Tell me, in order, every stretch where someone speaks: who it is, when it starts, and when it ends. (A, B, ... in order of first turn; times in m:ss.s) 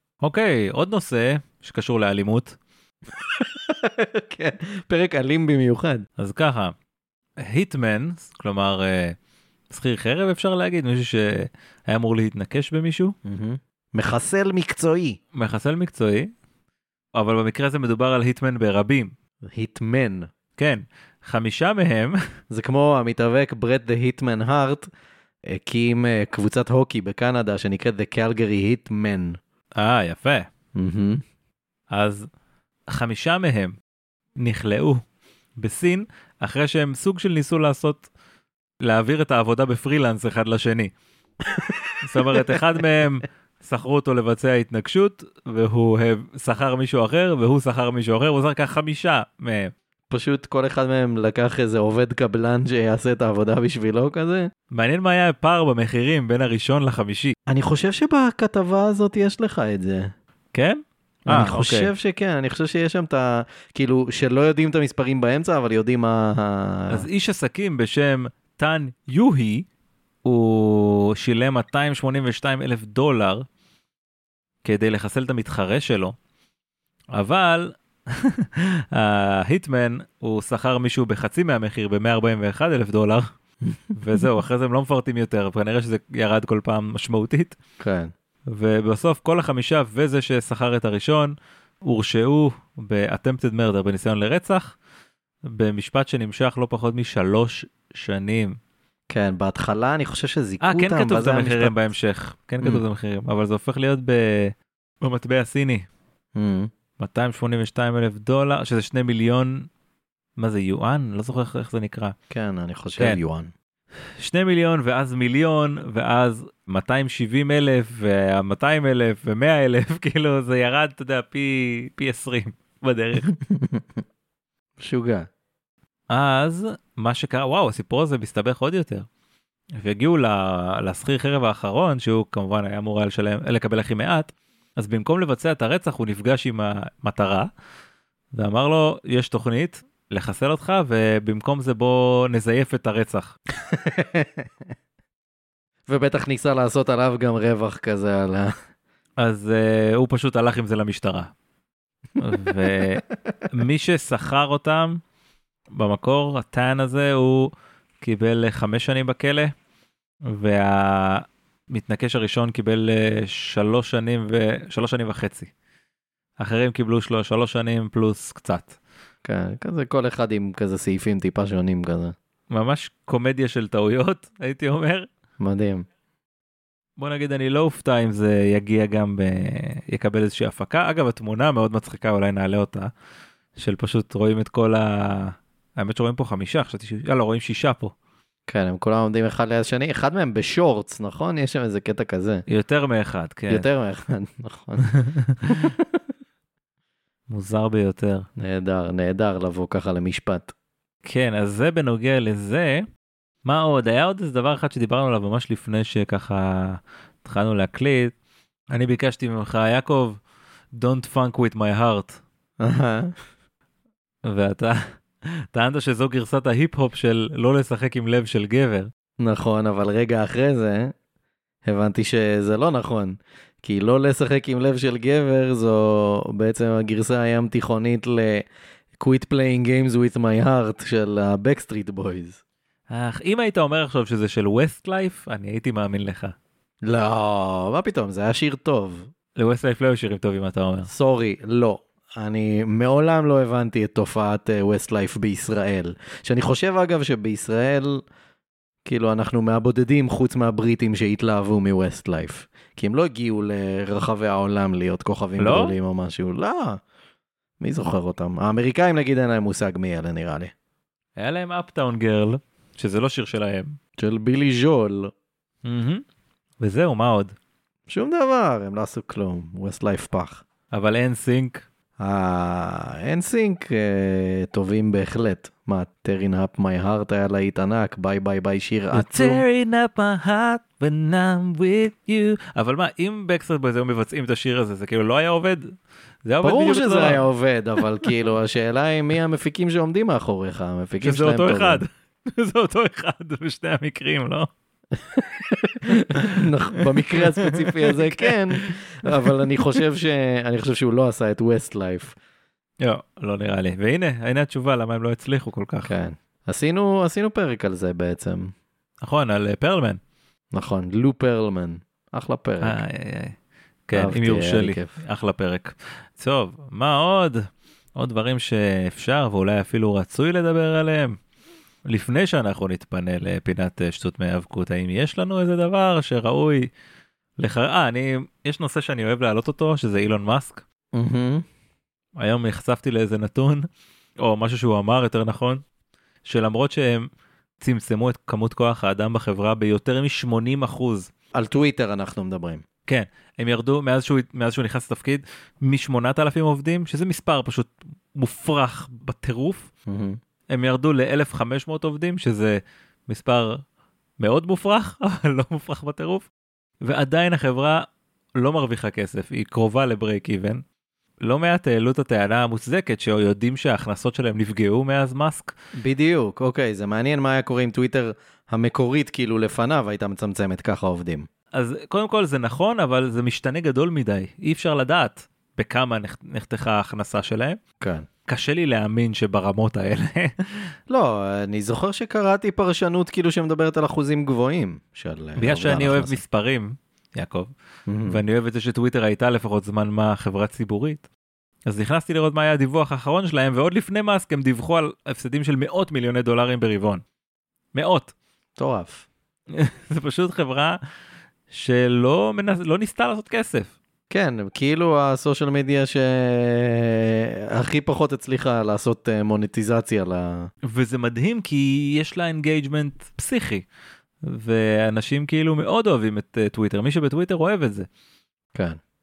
0:00.2-0:02.6 A
0:03.2-0:06.1 B
0:06.2-0:06.7 A
0:07.4-0:09.2 A
0:09.7-0:13.1 A
0:13.2-0:15.2 B
0:15.4-0:16.3 A
0:17.2-0:19.1 A
0:19.5-0:20.3 B
0:20.6-0:22.2 A
0:22.5-0:24.9 B
0:25.5-0:29.4 B
0:29.8-0:30.5 A
0:30.8-0:31.2 B
0:31.9-0:32.3 A
0:32.9-0:33.8 A
0:34.4-0:35.0 A
0:35.6-0:38.1 A
0:38.8-0:40.9 A
0:42.0-0:49.7 A
0:42.2-0:42.5 B
0:50.1-0:54.5 B
0:54.7-0:57.3 A
0:57.5-1:00.1 B
1:00.5-1:01.9 A
1:01.3-1:07.0 B
1:06.9-1:09.7 A
1:10.2-1:13.4 A
1:14.6-1:16.2 A
1:17.1-1:23.3 A
1:24.0-1:27.6 A
1:27.8-1:28.1 B
1:28.5-1:34.8 A
1:35.5-1:38.6 A
1:39.1-1:41.8 B
1:40.6-1:45.9 A
1:46.4-1:46.7 B
1:47.0-1:49.7 A
1:50.4-1:52.2 A
1:52.3-1:53.5 B
1:54.2-2:03.3 A
2:03.6-2:03.8 B
2:04.8-2:05.3 B
2:06.1-2:09.1 A
2:09.8-2:17.5 A
2:18.3-2:23.3 A
2:23.7-2:24.4 B
2:25.9-2:28.5 B
2:29.2-2:31.3 A
2:32.2-2:35.0 A
2:35.8-2:39.5 A
2:40.3-2:45.5 A
2:46.4-2:48.8 A
2:49.2-2:52.1 B
2:52.5-2:55.1 A
2:55.4-2:55.8 B
2:57.0-3:02.9 A
3:03.6-3:07.9 A
3:08.5-3:12.5 B
3:12.5-3:13.7 A
3:13.5-3:14.9 B
3:15.4-3:15.8 B
3:17.3-3:18.3 A
3:18.4-3:20.5 B
3:21.0-3:22.8 A
3:23.4-3:28.1 A
3:28.7-3:30.2 A
3:30.8-3:32.2 A
3:32.6-3:33.1 B
3:34.3-3:34.8 A
3:35.5-3:38.9 A
3:39.2-3:40.9 B
3:41.6-3:52.4 B
3:52.9-3:56.4 A
3:56.8-3:59.1 B
3:59.4-4:00.9 A
4:00.9-4:08.0 B
4:08.8-4:16.8 B
4:15.4-4:15.8 A
4:17.6-4:20.5 B
4:21.2-4:23.8 A
4:24.0-4:25.1 B
4:25.6-4:26.0 A
4:26.6-4:27.3 A
4:27.9-4:30.4 B
4:30.7-4:31.6 A
4:32.0-4:39.4 B
4:38.9-4:47.2 A
4:46.4-4:51.8 B
4:51.0-4:54.5 A
4:55.1-5:02.2 B
4:57.2-4:57.6 A
4:58.2-4:59.3 A
5:02.8-5:05.9 A
5:05.8-5:08.5 B
5:09.0-5:10.0 A
5:10.5-5:12.8 B
5:12.6-5:13.4 A
5:13.9-5:21.2 A
5:13.9-5:15.0 B
5:21.9-5:26.7 A
5:27.4-5:30.6 A
5:31.0-5:31.4 B
5:32.2-5:33.6 A
5:34.2-5:35.6 A
5:36.2-5:37.1 A
5:37.6-5:41.1 A
5:41.4-5:42.6 B
5:42.9-5:49.7 A
5:49.9-5:50.2 B
5:50.5-5:53.6 A
5:54.2-5:56.3 A
5:56.8-5:57.8 A
5:58.4-6:00.6 A
6:01.2-6:05.5 A
6:05.8-6:11.3 B
6:11.5-6:17.6 A
6:17.8-6:18.1 B
6:18.3-6:20.7 A
6:20.9-6:26.2 B
6:25.4-6:27.5 A
6:27.9-6:28.2 B
6:28.1-6:31.1 A
6:31.7-6:37.0 A
6:37.7-6:38.1 A
6:38.6-6:39.1 B
6:39.5-6:40.8 A
6:41.5-6:43.7 A
6:44.1-6:50.5 B
6:50.7-6:53.7 A
6:54.3-6:57.9 A